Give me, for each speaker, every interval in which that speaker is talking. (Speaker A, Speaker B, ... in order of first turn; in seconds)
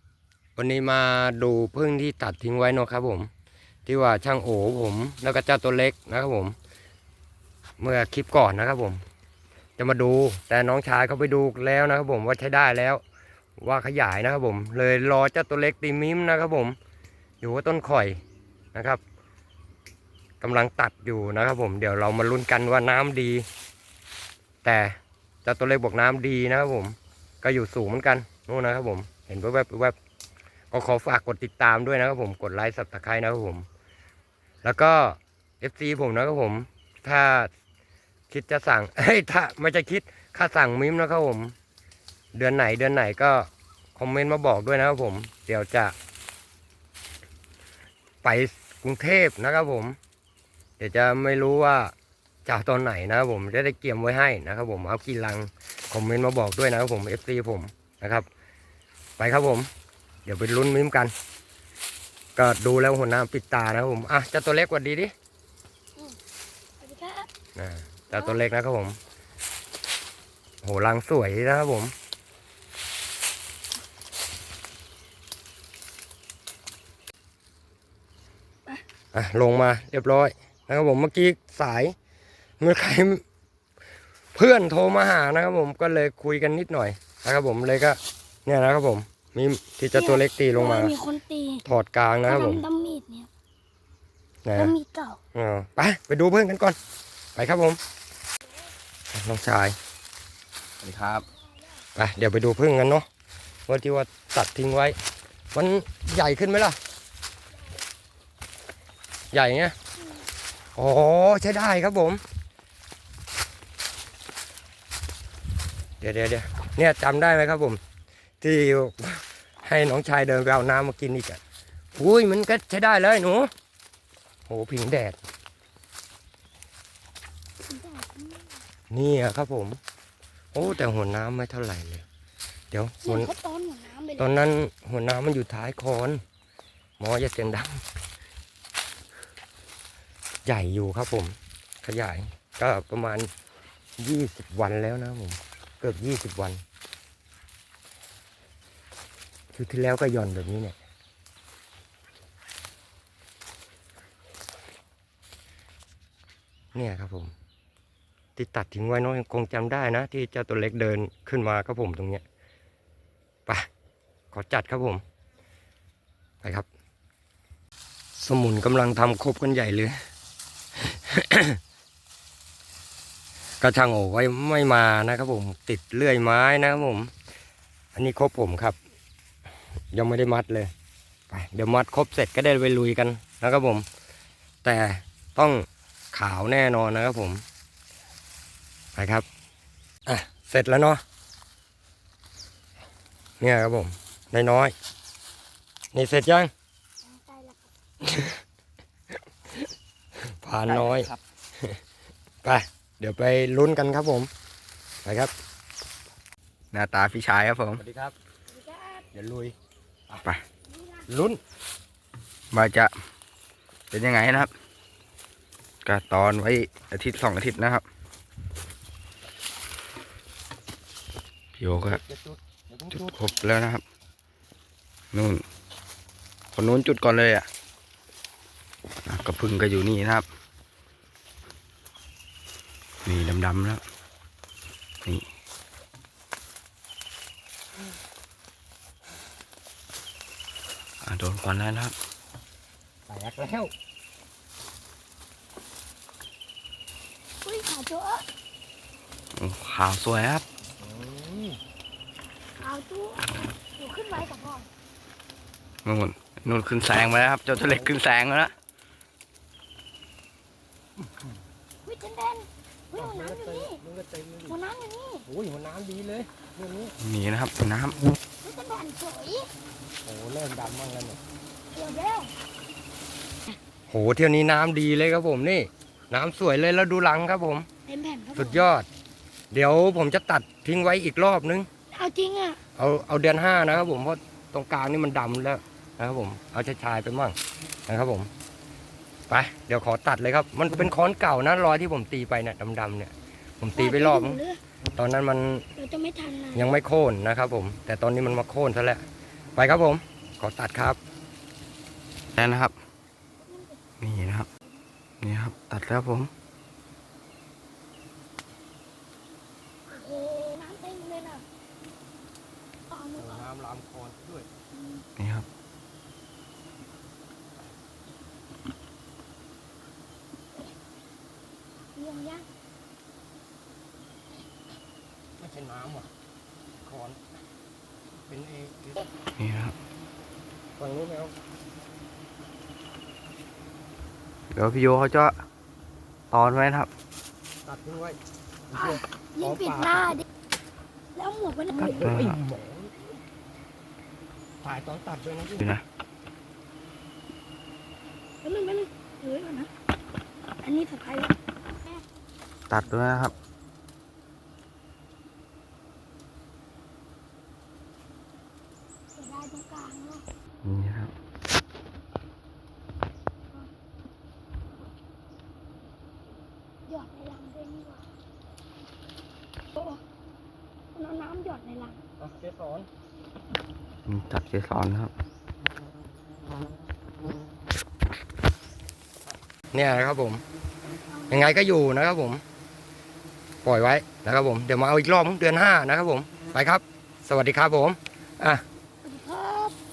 Speaker A: 0.6-3.3, 3.9-6.5, 7.8-9.0, 9.8-13.0, 13.6-16.8, 17.4-18.2, 18.7-19.0, 20.4-23.4, 24.6-29.9, 30.7-33.6, 34.6-37.5, 38.3-41.5, 42.3-45.9, 48.2-50.0, 50.8-51.9, 52.5-58.2, 59.2-59.7, 60.2-61.1, 62.4-65.1, 67.5-69.0, 70.6-71.9, 79.1-81.9, 82.6-83.2, 84.3-90.9, 91.7-92.6, 94.4-94.7, 95.3-96.8, 97.3-97.8, 99.1-99.8, 102.0-103.0, 103.7-105.0, 105.5-106.8, 109.3-109.7, 110.8-112.2, 116.0-117.8, 118.4-121.4, 121.9-123.5, 124.5-125.2, 128.9-129.8, 130.5-132.0, 132.7-133.3, 134.2-136.2, 137.0-137.8, 140.4-143.3, 144.0-146.6, 149.5-150.8, 156.7-157.3, 158.3-162.2, 164.3-165.0, 168.2-169.9, 170.8-171.6, 173.6-177.1, 177.9-178.8, 179.9-180.7, 181.3-183.8, 184.6-187.4, 188.9-189.2, 190.1-191.0, 193.4-194.7, 195.9-196.5, 198.0-198.4, 200.4-201.1, 202.4-204.3, 205.0-205.3, 207.8-208.1, 209.1-209.5, 211.1-211.4, 221.7-223.2, 243.1-243.7, 250.8-251.6, 263.0-264.6, 265.2-266.9, 270.0-271.2, 273.9-277.7, 278.4-278.9, 279.5-281.7, 282.8-287.4, 287.9-288.3, 289.3-294.4, 294.9-295.6, 296.5-301.0, 313.2-314.5, 325.4-326.1, 326.8-327.2, 328.3-329.0, 330.8-331.3, 337.6-338.2, 338.7-340.1, 341.8-343.1, 344.6-345.7, 372.2-372.9, 379.7-380.4, 381.3-382.4, 383.6-388.6
Speaker B: 66.8-67.3, 68.1-68.4, 89.9-91.6, 92.2-93.3, 94.5-95.2, 127.6-128.5, 133.0-134.3, 197.0-197.7, 208.5-209.0, 210.7-211.0, 247.4-248.2, 252.6-254.7, 261.8-263.8, 264.5-265.2, 268.4-269.5, 271.7-272.3, 277.9-278.7, 281.9-282.6, 293.8-294.6, 295.8-296.8, 303.4-303.8, 309.9-311.4, 312.9-313.4, 314.7-315.0, 321.9-322.4, 338.7-340.2, 341.1-342.1, 348.4-349.7, 350.6-352.0, 359.1-360.2, 366.9-368.1, 369.7-370.0, 370.9-372.0, 380.9-381.6, 389.0-389.8
Speaker C: 100.8-101.2, 200.7-201.2, 206.7-207.8, 212.5-212.9, 213.9-214.5, 215.8-217.8, 221.6-222.0, 223.0-223.8, 225.1-225.4, 226.5-227.5, 229.1-230.2, 233.0-233.8, 241.0-241.9, 249.3-250.4, 255.8-258.5, 267.0-268.0, 302.3-302.8, 304.0-304.5, 305.2-306.3, 315.2-315.5, 329.4-329.7, 334.5-335.3, 336.3-336.9, 341.8-342.4, 345.6-345.8, 352.7-353.3, 360.6-361.1, 374.1-375.1